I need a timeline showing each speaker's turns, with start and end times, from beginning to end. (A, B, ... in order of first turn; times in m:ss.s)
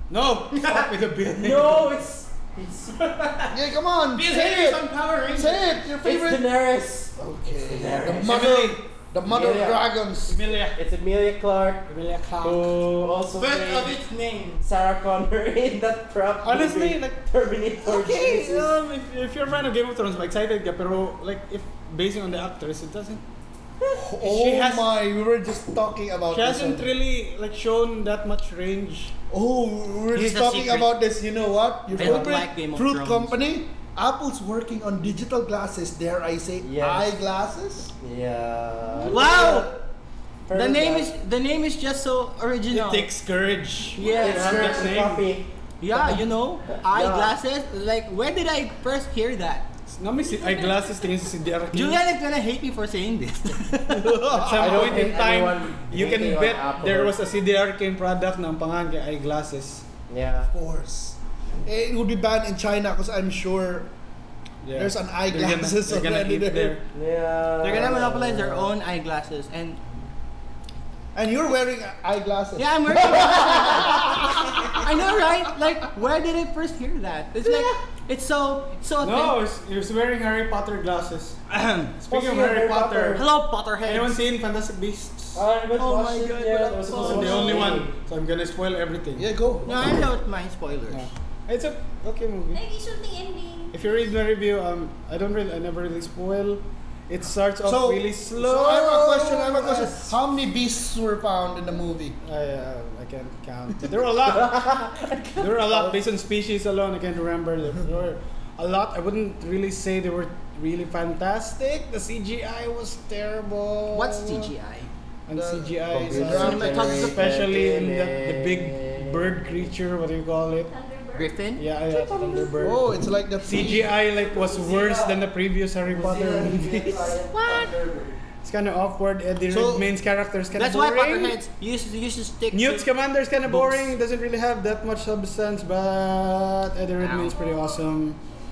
0:00.1-0:02.0 A
0:00.5-0:00.9 B
0:01.2-0:03.0 C
0:03.0-0:03.6 B
0:03.5-0:06.5 D
0:04.1-0:05.8 B
0:06.0-0:08.6 C
0:07.2-0:10.5 D
0:08.1-0:08.8 A
0:09.2-0:09.9 C
0:10.3-0:10.8 A
0:10.7-0:14.0 C
0:11.9-0:12.8 A
0:13.4-0:14.6 B
0:14.6-0:18.8 C
0:16.4-0:17.3 A
0:18.0-0:23.2 A
0:23.9-0:26.9 D
0:24.2-0:24.9 A
0:26.3-0:29.2 A
0:29.3-0:37.9 D
0:30.1-0:30.9 B
0:31.9-0:33.3 B
0:32.0-0:32.3 A
0:36.6-0:37.2 C
0:38.0-0:39.7 C
0:39.1-0:39.7 B
0:39.1-0:39.7 A
0:40.5-0:41.1 C
0:40.5-0:43.1 B
0:42.7-0:45.3 A
0:44.0-0:44.9 B
0:44.0-0:45.5 C
0:45.8-0:49.7 B
0:46.7-0:47.4 C
0:49.9-0:52.0 A
0:51.7-0:54.2 B
0:53.9-0:59.9 A
0:54.3-0:54.7 D
0:54.4-0:57.3 C
1:00.1-1:00.5 C
1:00.5-1:03.9 D
1:04.6-1:06.8 A
1:04.8-1:06.8 D
1:06.9-1:08.7 C
1:07.6-1:09.9 B
1:11.1-1:15.1 D
1:12.6-1:19.4 B
1:19.0-1:21.4 A
1:21.5-1:22.0 B
1:22.0-1:23.2 A
1:22.1-1:23.3 C
1:23.2-1:24.2 B
1:23.8-1:25.4 A
1:25.4-1:28.0 C
1:25.8-1:27.7 B
1:27.0-1:29.3 A
1:29.2-1:29.7 D
1:29.6-1:31.1 B
1:30.9-1:32.6 A
1:32.5-1:33.8 E
1:33.7-1:40.0 A
1:37.6-1:42.2 D
1:42.2-1:54.5 A
1:44.3-1:46.1 C
1:53.9-1:54.9 B
1:55.3-2:00.7 A
1:55.4-1:57.1 D
1:55.9-1:59.7 C
1:56.3-1:57.3 B
2:00.7-2:01.4 E
2:01.2-2:01.6 B
2:01.6-2:07.0 A
2:01.9-2:02.4 C
2:02.6-2:05.0 D
2:04.7-2:05.2 C
2:05.9-2:07.6 C
2:06.0-2:08.2 D
2:08.4-2:11.4 A
2:09.5-2:09.9 D
2:10.6-2:12.9 B
2:12.5-2:18.2 A
2:13.5-2:13.9 B
2:17.0-2:17.4 B